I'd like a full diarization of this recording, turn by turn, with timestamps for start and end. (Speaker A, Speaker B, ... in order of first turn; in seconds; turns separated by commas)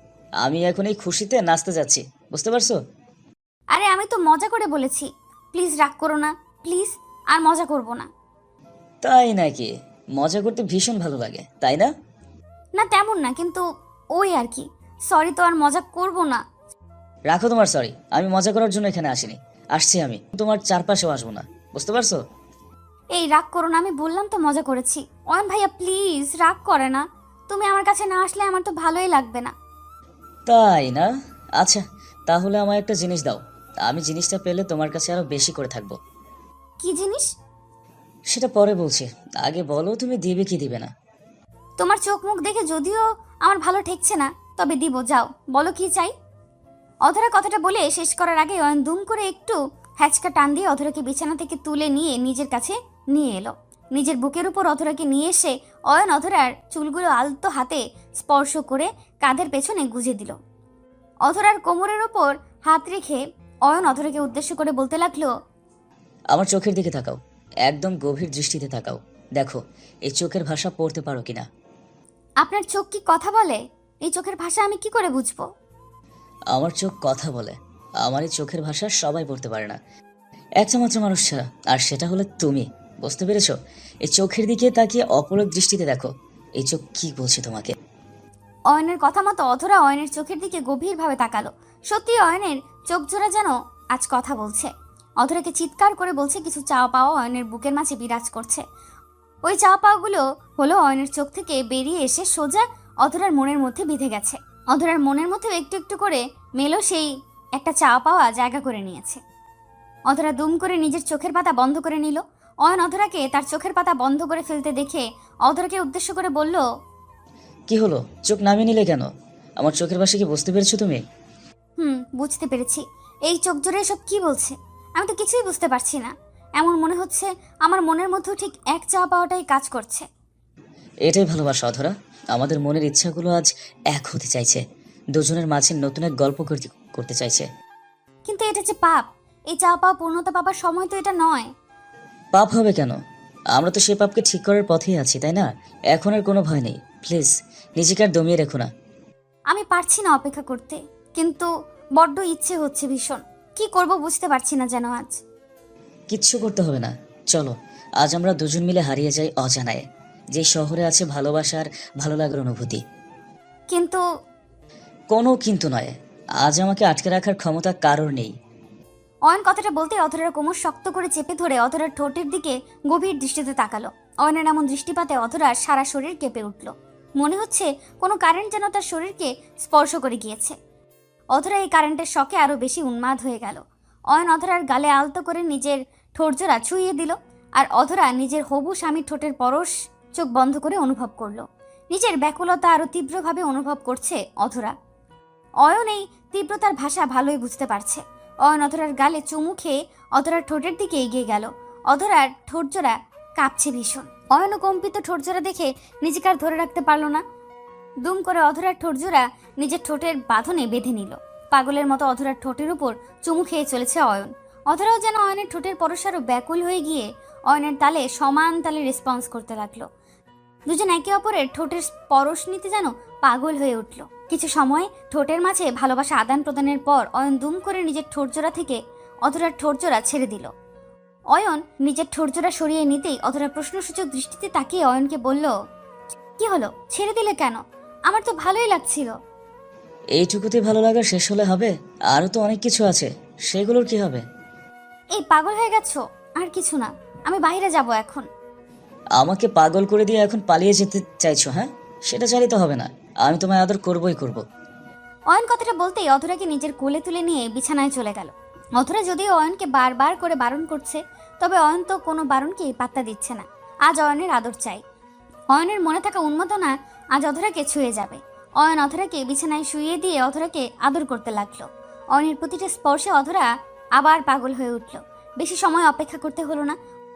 Speaker A: 0.4-2.8, Speaker B: 3.7-8.1, Speaker A: 9.0-11.9, Speaker B: 12.8-13.6, Speaker B: 14.1-16.4, Speaker A: 17.3-22.2, Speaker B: 23.1-29.5, Speaker A: 30.5-36.0, Speaker B: 36.8-37.3, Speaker A: 38.3-40.9, Speaker B: 41.8-46.1, Speaker B: 47.0-60.4, Speaker B: 61.2-65.3, Speaker A: 66.3-71.5, Speaker B: 72.4-75.5, Speaker A: 76.5-79.8, Speaker A: 80.6-87.7, Speaker B: 88.7-98.6, Speaker B: 99.5-109.2, Speaker B: 110.1-116.6, Speaker A: 117.7-121.0, Speaker B: 121.8-130.1, Speaker A: 131.1-134.6, Speaker A: 135.1-137.5, Speaker B: 138.2-141.5, Speaker A: 142.3-143.0, Speaker A: 143.5-148.7, Speaker B: 149.5-155.2, Speaker A: 156.1-159.8, Speaker A: 160.3-162.8, Speaker B: 163.7-164.0, Speaker A: 165.1-168.3, Speaker B: 169.3-180.6, Speaker B: 181.3-194.7, Speaker B: 195.6-207.2, Speaker B: 208.0-219.9, Speaker B: 220.7-230.5, Speaker B: 231.3-235.5, Speaker B: 236.4-239.1, Speaker A: 240.2-244.2, Speaker B: 245.1-248.3, Speaker A: 249.2-254.4, Speaker B: 255.3-264.8, Speaker B: 265.5-276.8